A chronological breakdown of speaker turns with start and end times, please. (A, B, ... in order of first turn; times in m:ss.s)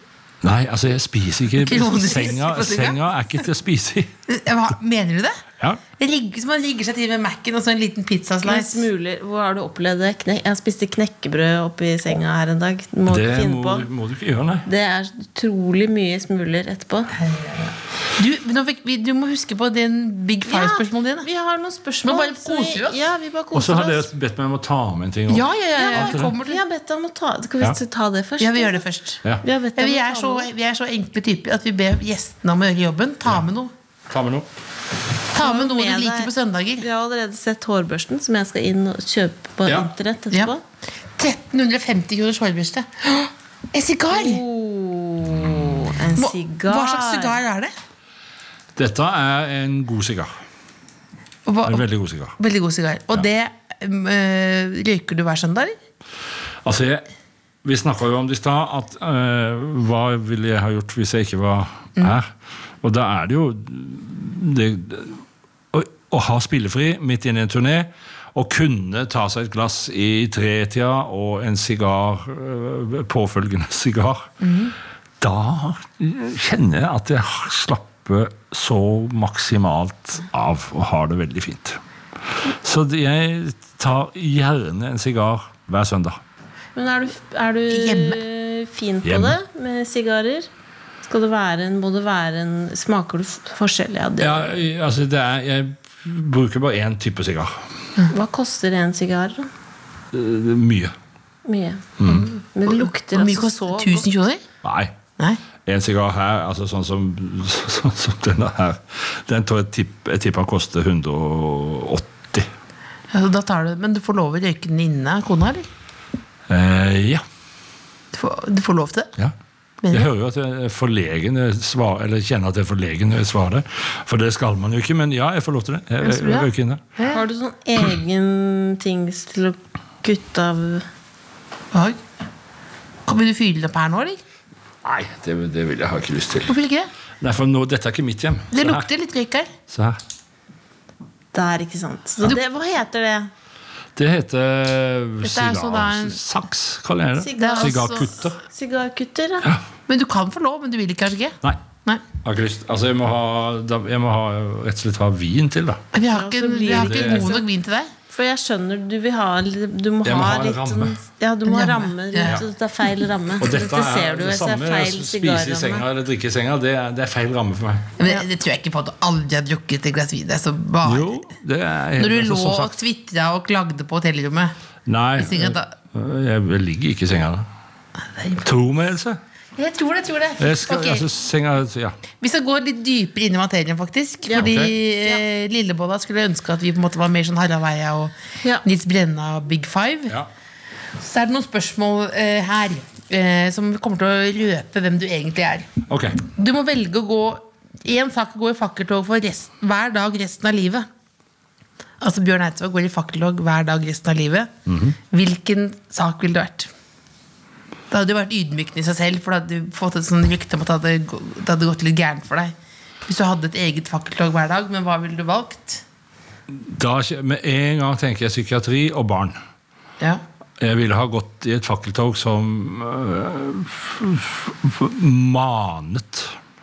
0:00.4-0:04.1 A
0:01.6-0:03.0 B
0:04.3-0:05.4 B
0:06.0-0:08.9 B
0:08.4-0:13.9 C
0:13.0-0:14.7 A
0:14.6-0:17.1 C
0:17.1-0:21.3 B
0:20.4-0:24.1 C
0:22.0-0:23.0 B
0:23.5-0:26.3 A
0:25.3-0:26.6 B
0:25.8-0:28.8 C
0:28.4-0:29.2 B
0:29.4-0:30.5 C
0:29.8-0:33.7 B
0:34.1-0:34.5 A
0:35.3-0:36.8 B
0:35.4-0:40.6 C
0:39.6-0:39.9 A
0:41.2-0:44.4 B
0:44.1-0:47.4 C
0:46.2-0:47.7 B
0:48.8-0:50.3 A
0:51.4-0:51.8 B
0:51.6-0:52.4 A
0:52.4-0:55.7 B
0:56.6-0:57.0 A
0:57.6-1:02.3 A
1:02.8-1:14.3 A
1:14.4-1:14.7 B
1:15.2-1:21.8 A
1:22.4-1:26.2 A
1:26.8-1:30.5 C
1:27.7-1:28.2 B
1:29.0-1:29.4 A
1:31.0-1:34.5 C
1:34.2-1:37.6 A
1:38.1-1:39.5 C
1:40.1-1:40.9 A
1:41.4-1:44.1 C
1:42.0-1:42.3 A
1:42.0-1:44.4 B
1:44.6-1:45.0 A
1:45.6-1:52.5 A
1:53.1-1:55.7 B
1:56.5-1:57.2 A
1:58.1-1:59.1 B
1:59.8-2:00.1 B
1:59.9-2:06.8 A
2:06.0-2:07.2 B
2:07.1-2:10.8 C
2:11.7-2:12.0 B
2:13.0-2:14.2 B
2:14.8-2:16.5 A
2:16.4-2:16.9 B
2:17.2-2:18.9 A
2:18.5-2:19.5 B
2:19.7-2:20.0 A
2:21.3-2:23.3 C
2:24.0-2:28.4 A
2:25.2-2:26.2 B
2:27.2-2:29.5 C
2:27.4-2:28.1 B
2:29.9-2:32.0 B
2:32.2-2:35.8 A
2:35.9-2:37.9 B
2:36.1-2:37.4 C
2:36.6-2:37.3 A
2:38.1-2:45.8 C
2:40.0-2:41.0 A
2:41.4-2:42.4 B
2:43.4-2:47.9 A
2:48.0-2:51.1 B
2:50.8-2:52.8 A
2:52.0-2:54.5 B
2:54.9-2:57.5 A
2:55.2-2:55.7 B
2:58.0-2:58.4 B
2:58.4-2:59.2 A
2:59.6-3:01.1 B
3:00.4-3:02.0 A
3:02.2-3:10.1 B
3:04.2-3:05.2 C
3:04.3-3:04.7 A
3:11.0-3:15.7 B
3:15.9-3:16.2 A
3:16.2-3:20.9 B
3:22.0-3:24.5 B
3:24.7-3:24.9 A
3:25.1-3:26.7 B
3:27.9-3:32.5 B
3:33.0-3:35.8 B
3:36.5-3:39.4 A
3:40.6-3:46.4 A